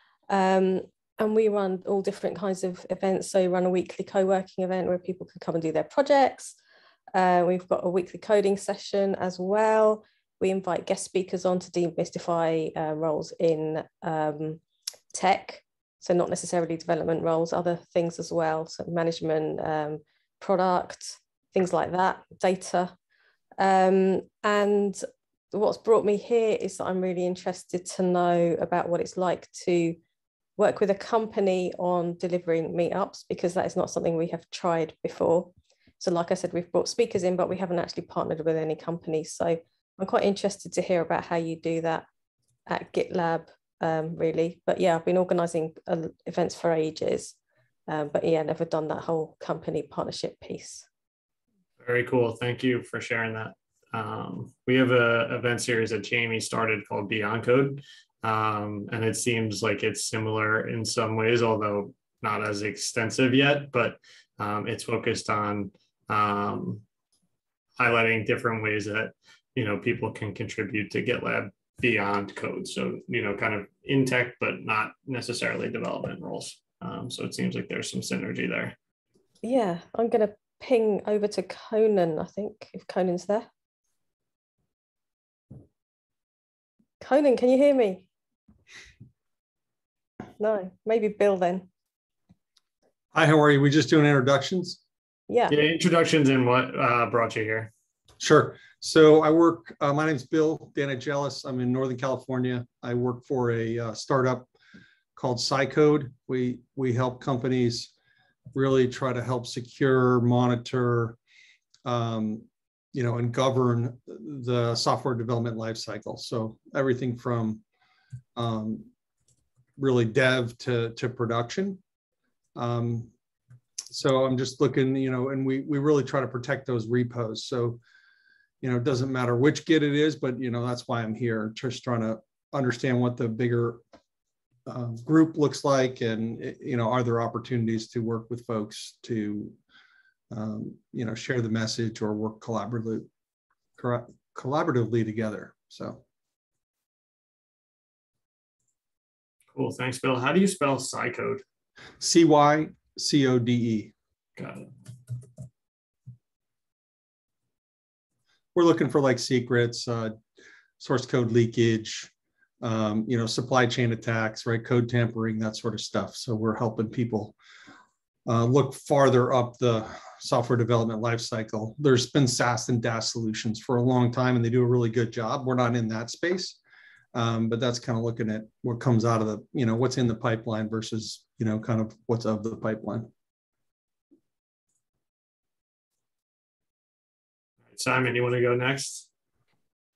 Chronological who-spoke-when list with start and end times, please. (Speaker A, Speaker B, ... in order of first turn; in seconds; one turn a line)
Speaker A: 0.3-6.5
Speaker A: 7.1-14.6
Speaker A: 15.1-22.9
Speaker A: 23.6-25.0
Speaker A: 25.5-30.0
Speaker A: 30.6-42.1
Speaker A: 42.7-47.4
Speaker A: 47.9-50.9
Speaker B: 51.8-66.8
Speaker B: 67.8-78.8
Speaker A: 79.4-83.5
Speaker A: 87.0-88.1
Speaker A: 90.4-91.7
Speaker C: 93.1-94.8
Speaker A: 95.3-95.5
Speaker B: 95.5-97.7
Speaker C: 98.2-104.5
Speaker C: 105.2-107.9
Speaker C: 108.5-111.2
Speaker C: 111.8-117.6
Speaker C: 118.4-118.9
Speaker C: 119.8-121.8
Speaker C: 122.6-123.1
Speaker C: 123.9-127.8
Speaker C: 128.6-133.8
Speaker C: 134.7-139.6
Speaker C: 140.3-143.1
Speaker C: 143.8-146.0
Speaker B: 149.5-151.4
Speaker C: 152.0-153.9
Speaker B: 154.4-154.7
Speaker C: 158.6-160.2
Speaker C: 160.8-162.1
Speaker C: 162.6-167.4
Speaker C: 168.3-176.6
Speaker C: 177.1-183.1
Speaker B: 187.7-189.1